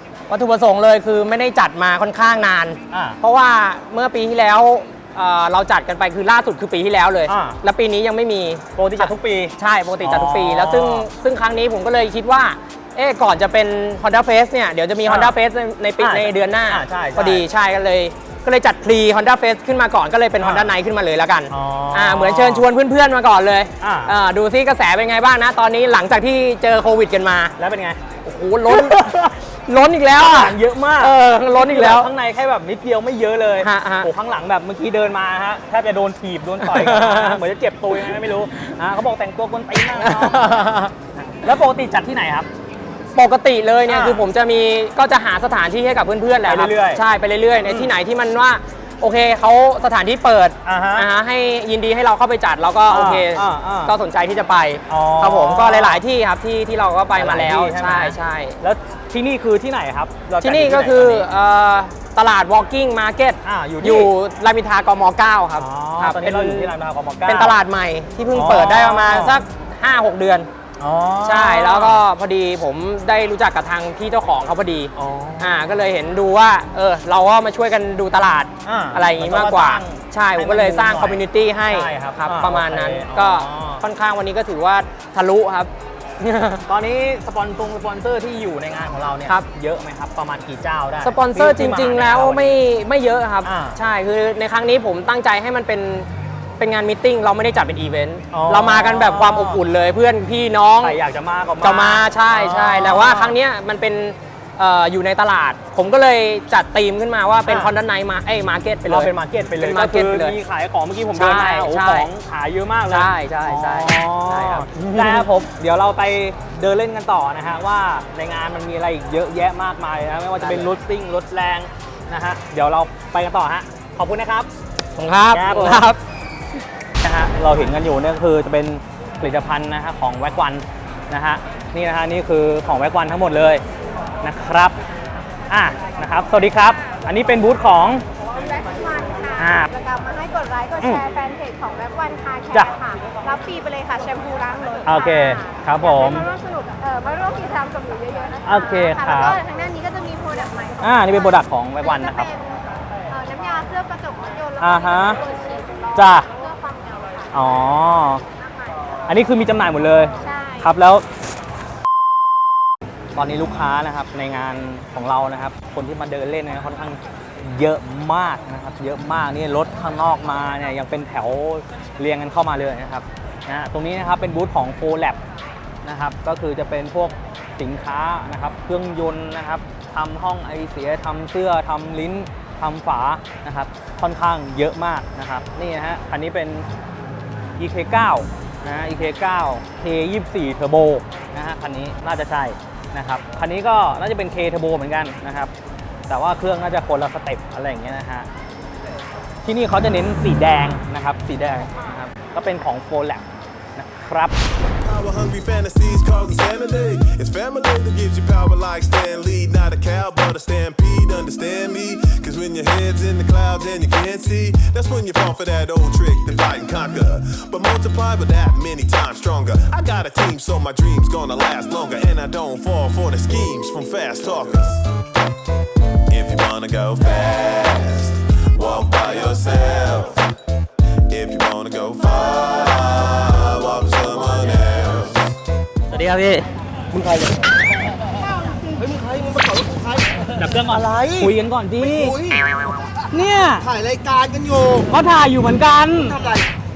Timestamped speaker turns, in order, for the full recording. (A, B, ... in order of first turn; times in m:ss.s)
0:00.3-0:27.5 A
0:02.9-0:03.2 B
0:07.3-0:07.6 B
0:08.8-0:11.1 B
0:15.0-0:15.3 B
0:16.0-0:17.4 B
0:20.4-0:20.7 B
0:21.5-0:22.7 B
0:23.8-0:24.1 B
0:27.6-0:28.0 B
0:28.2-0:29.0 A
0:28.7-0:29.3 B
0:29.6-0:32.1 A
0:30.2-0:42.5 B
0:33.6-0:34.1 A
0:36.6-0:37.4 A
0:39.9-0:40.9 A
0:43.1-0:58.6 A
0:43.9-0:44.2 B
0:46.4-0:47.0 B
0:47.6-0:47.9 B
0:50.6-0:51.1 B
0:52.9-0:53.9 B
0:54.9-0:56.0 B
0:57.1-1:01.3 B
1:00.4-1:06.7 A
1:03.4-1:04.1 B
1:05.6-1:07.6 B
1:07.2-1:10.5 A
1:08.3-1:09.4 B
1:10.8-1:12.0 B
1:11.2-1:26.6 A
1:14.9-1:15.6 B
1:18.6-1:23.8 B
1:26.6-1:32.6 B
1:31.0-1:36.1 A
1:33.4-1:33.8 B
1:36.6-1:41.0 A
1:38.3-1:39.6 B
1:40.8-1:43.4 B
1:41.6-1:50.4 A
1:47.4-1:47.7 B
1:48.8-2:04.5 B
1:51.1-1:52.1 A
1:52.9-1:55.3 A
2:00.4-2:00.7 A
2:05.0-2:06.0 A
2:05.3-2:05.8 B
2:07.0-2:13.6 B
2:14.2-2:14.8 B
2:15.5-2:18.0 B
2:18.7-2:19.2 C
2:19.4-2:19.7 B
2:19.8-2:22.4 C
2:20.8-2:21.0 B
2:23.0-2:24.8 C
2:24.8-2:26.3 B
2:26.3-2:28.3 C
2:28.4-2:29.4 B
2:29.4-2:30.7 C
2:30.8-2:32.3 B
2:33.1-2:34.6 C
2:34.6-2:35.2 B
2:35.2-2:35.8 C
2:35.9-2:36.3 B
2:36.6-2:37.2 C
2:37.3-2:38.2 B
2:39.1-2:41.0 B
2:43.1-2:55.2 B
2:55.8-3:06.6 B
3:07.6-3:15.5 B
3:16.1-3:18.3 B
3:19.4-3:24.3 B
3:24.8-3:44.8 D
3:46.1-3:50.3 D
3:51.1-3:55.3 D
3:55.9-3:56.4 B
3:56.9-3:57.5 E
3:58.6-4:00.7 E
4:00.3-4:02.2 B
4:03.1-4:03.7 B
4:03.6-4:04.9 E
4:04.8-4:06.2 B